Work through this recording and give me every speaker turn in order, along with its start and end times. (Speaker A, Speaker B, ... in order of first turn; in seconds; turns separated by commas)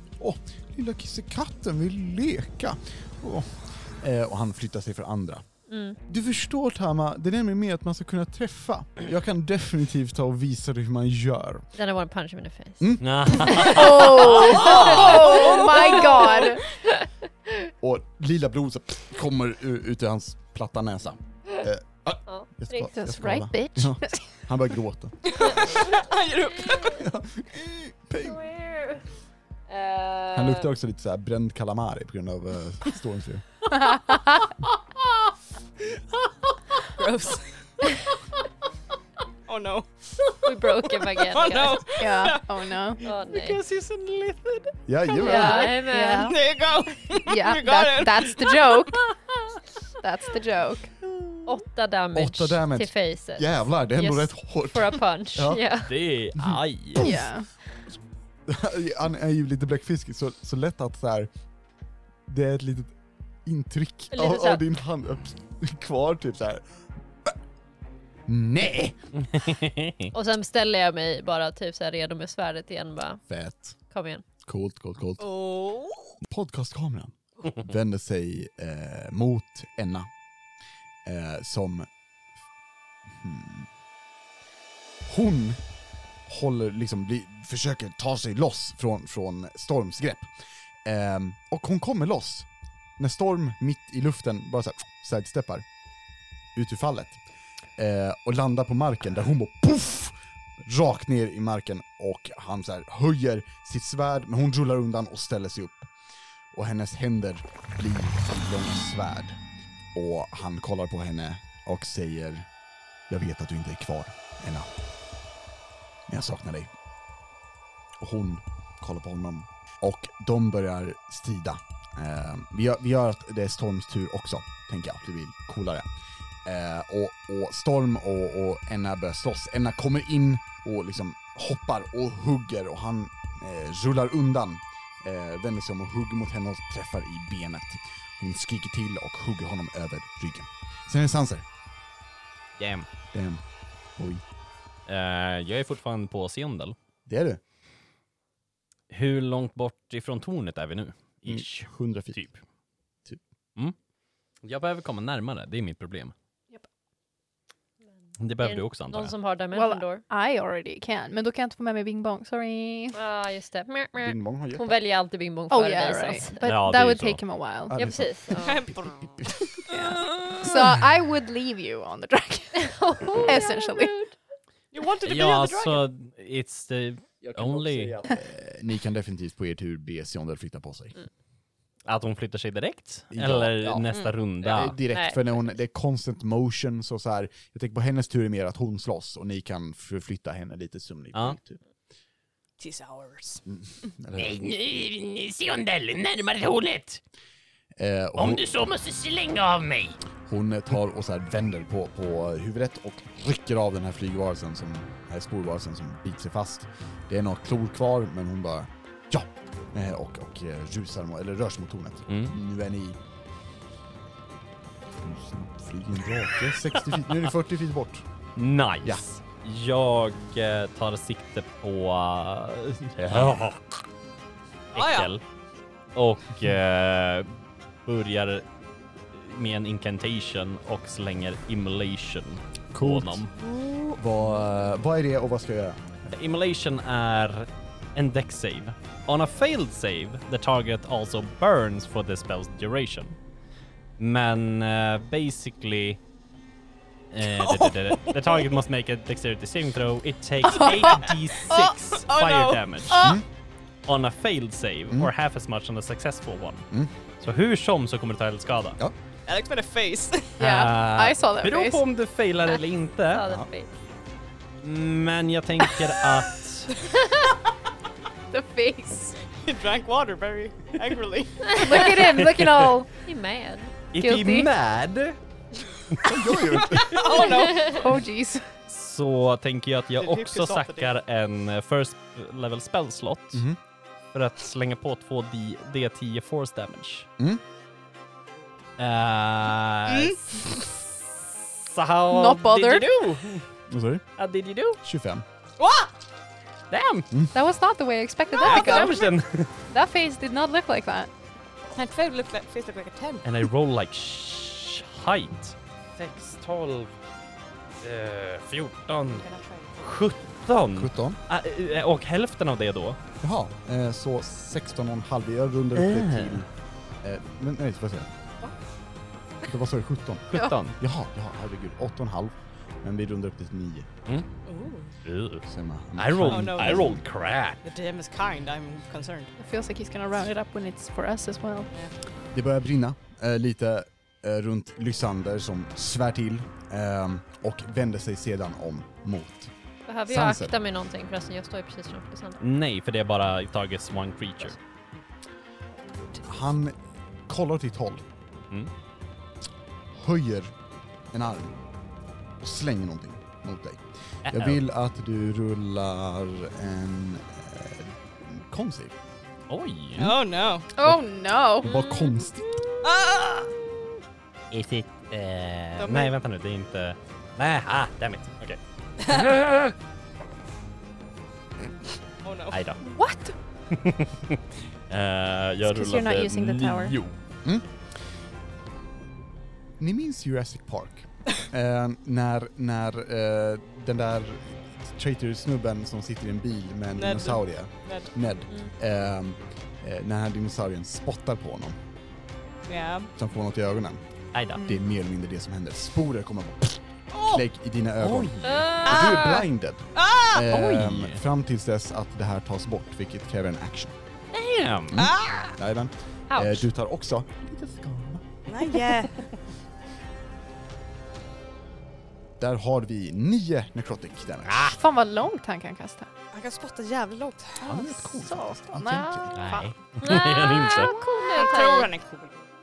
Speaker A: 0.2-5.4, Speaker B: 5.7-6.0, Speaker A: 6.1-11.7, Speaker B: 11.8-17.7, Speaker A: 12.8-13.8, Speaker C: 13.0-14.6, Speaker D: 13.6-16.7, Speaker E: 14.6-16.4, Speaker A: 17.8-25.8, Speaker B: 22.3-22.9, Speaker D: 22.9-24.3, Speaker E: 25.2-27.0, Speaker B: 25.5-26.0, Speaker B: 26.5-27.0, Speaker A: 26.9-28.4, Speaker B: 28.2-29.1, Speaker B: 29.7-30.7, Speaker A: 30.3-33.4, Speaker D: 33.7-34.5, Speaker E: 37.0-37.6, Speaker E: 39.5-43.0, Speaker B: 40.4-41.9, Speaker D: 42.0-43.0, Speaker B: 43.0-43.6, Speaker C: 43.3-44.7, Speaker A: 44.9-45.7, Speaker B: 45.2-46.4, Speaker D: 45.2-46.4, Speaker E: 45.4-48.8, Speaker D: 47.2-49.1, Speaker D: 50.0-50.9, Speaker C: 51.1-51.4, Speaker B: 51.5-56.0, Speaker A: 52.1-55.6, Speaker C: 55.9-57.2, Speaker A: 56.4-57.2, Speaker D: 57.0-57.5, Speaker A: 58.5-61.3, Speaker A: 62.3-66.6, Speaker B: 64.1-64.6, Speaker A: 68.3-69.0, Speaker C: 69.2-70.1, Speaker B: 70.1-73.2, Speaker A: 73.3-73.8, Speaker B: 73.9-74.2, Speaker A: 74.5-75.3, Speaker E: 75.2-76.2, Speaker A: 76.2-80.1, Speaker A: 81.0-81.9, Speaker A: 83.1-83.7, Speaker A: 85.1-85.6, Speaker A: 86.3-90.3, Speaker A: 90.8-95.7, Speaker A: 96.5-97.2, Speaker A: 97.8-105.9, Speaker A: 106.5-109.4, Speaker A: 109.9-112.5, Speaker A: 113.1-114.7, Speaker A: 116.1-116.7, Speaker A: 118.0-125.9, Speaker A: 126.5-141.4, Speaker C: 142.6-142.9, Speaker A: 143.1-143.4, Speaker A: 144.0-144.2, Speaker C: 144.9-146.8, Speaker A: 147.1-147.4, Speaker C: 148.9-152.4, Speaker A: 151.3-152.2, Speaker C: 154.4-156.1, Speaker C: 158.2-159.1, Speaker B: 158.4-160.1, Speaker D: 159.5-163.0, Speaker B: 162.9-166.4, Speaker A: 164.0-164.8, Speaker D: 165.5-167.8, Speaker C: 166.4-167.2, Speaker A: 167.7-169.6, Speaker B: 167.8-168.7, Speaker E: 168.4-169.6, Speaker D: 169.7-173.9, Speaker B: 172.6-174.2, Speaker E: 174.7-175.9, Speaker C: 175.1-177.9, Speaker A: 177.2-181.0, Speaker C: 181.9-184.8, Speaker A: 183.1-191.6, Speaker E: 183.9-184.7, Speaker B: 184.9-185.2, Speaker E: 192.6-193.4, Speaker A: 193.5-194.4, Speaker C: 194.2-197.0, Speaker A: 197.8-198.4, Speaker C: 198.2-200.0, Speaker A: 200.3-213.0, Speaker C: 212.1-212.4, Speaker A: 215.0-218.1, Speaker C: 218.4-223.6, Speaker A: 223.0-223.4, Speaker E: 224.7-225.1, Speaker C: 224.7-225.2, Speaker C: 225.9-228.5, Speaker C: 229.1-233.3, Speaker A: 232.7-233.2, Speaker E: 233.5-233.9, Speaker A: 234.0-236.0, Speaker C: 236.1-243.2, Speaker C: 244.0-246.0, Speaker C: 247.1-253.2, Speaker E: 247.2-248.4, Speaker D: 250.5-251.7, Speaker E: 250.8-252.7, Speaker D: 252.9-253.2, Speaker A: 253.0-253.2, Speaker C: 253.9-256.7, Speaker C: 257.2-258.8, Speaker E: 259.3-260.4, Speaker D: 260.4-261.9, Speaker C: 260.4-263.2, Speaker B: 263.1-263.7, Speaker C: 264.6-266.8, Speaker D: 268.3-269.2, Speaker E: 269.4-272.0, Speaker D: 271.6-272.9, Speaker C: 272.0-272.7, Speaker B: 273.1-273.8, Speaker C: 273.9-275.2, Speaker D: 274.0-274.5, Speaker A: 276.0-277.1, Speaker E: 276.7-277.9, Speaker D: 277.1-278.5, Speaker B: 277.2-277.9, Speaker C: 278.7-283.4, Speaker E: 280.0-280.9, Speaker C: 284.1-287.1, Speaker C: 288.8-293.5, Speaker E: 289.9-290.7, Speaker D: 292.1-293.0, Speaker A: 293.7-294.1, Speaker C: 294.2-294.8, Speaker A: 294.8-295.2, Speaker E: 295.6-295.9, Speaker C: 296.7-297.1, Speaker D: 297.3-299.1, Speaker C: 298.4-299.5, Speaker E: 298.4-298.9, Speaker D: 299.7-301.1, Speaker E: 301.7-303.3, Speaker C: 303.2-306.9, Speaker C: 307.8-309.3, Speaker E: 309.1-309.8, Speaker C: 309.8-313.0, Speaker A: 310.8-311.2, Speaker A: 313.2-316.5, Speaker C: 315.8-316.4, Speaker A: 317.0-318.1, Speaker A: 319.5-323.9, Speaker C: 320.3-320.8, Speaker E: 324.5-324.9, Speaker C: 325.1-327.6, Speaker A: 325.5-327.0, Speaker E: 326.3-327.0, Speaker E: 327.6-329.3, Speaker D: 329.4-331.7, Speaker A: 332.3-339.5, Speaker B: 339.9-342.4, Speaker A: 340.1-340.5, Speaker C: 342.4-344.6, Speaker A: 346.2-346.8, Speaker A: 347.3-348.1, Speaker A: 349.9-350.5, Speaker A: 351.1-351.6, Speaker A: 352.4-358.9, Speaker C: 354.3-354.6, Speaker C: 359.5-360.1, Speaker E: 360.0-360.7, Speaker D: 360.7-361.8, Speaker A: 360.8-361.0, Speaker A: 361.6-362.6, Speaker B: 361.6-362.3, Speaker E: 362.8-363.5, Speaker C: 364.5-369.8, Speaker E: 365.8-366.1, Speaker E: 372.2-372.6, Speaker C: 372.5-372.8, Speaker D: 372.8-373.4, Speaker C: 373.7-377.2, Speaker D: 375.6-377.0, Speaker A: 379.8-391.8, Speaker E: 387.0-388.1, Speaker E: 392.7-393.1, Speaker A: 393.1-404.0, Speaker C: 394.3-394.7, Speaker C: 397.1-397.4, Speaker C: 398.0-398.8, Speaker B: 398.4-399.5, Speaker E: 398.9-400.4, Speaker C: 400.5-401.2, Speaker C: 404.3-405.6, Speaker A: 404.9-408.3, Speaker E: 405.0-405.5, Speaker B: 406.3-406.7, Speaker E: 408.5-409.2, Speaker A: 412.4-414.8, Speaker C: 414.5-414.8, Speaker D: 414.8-416.1, Speaker E: 416.3-417.7, Speaker D: 417.6-419.4, Speaker A: 417.6-419.4, Speaker C: 419.3-420.9, Speaker E: 419.4-419.7, Speaker B: 420.0-421.9, Speaker D: 420.7-421.0, Speaker E: 421.3-422.4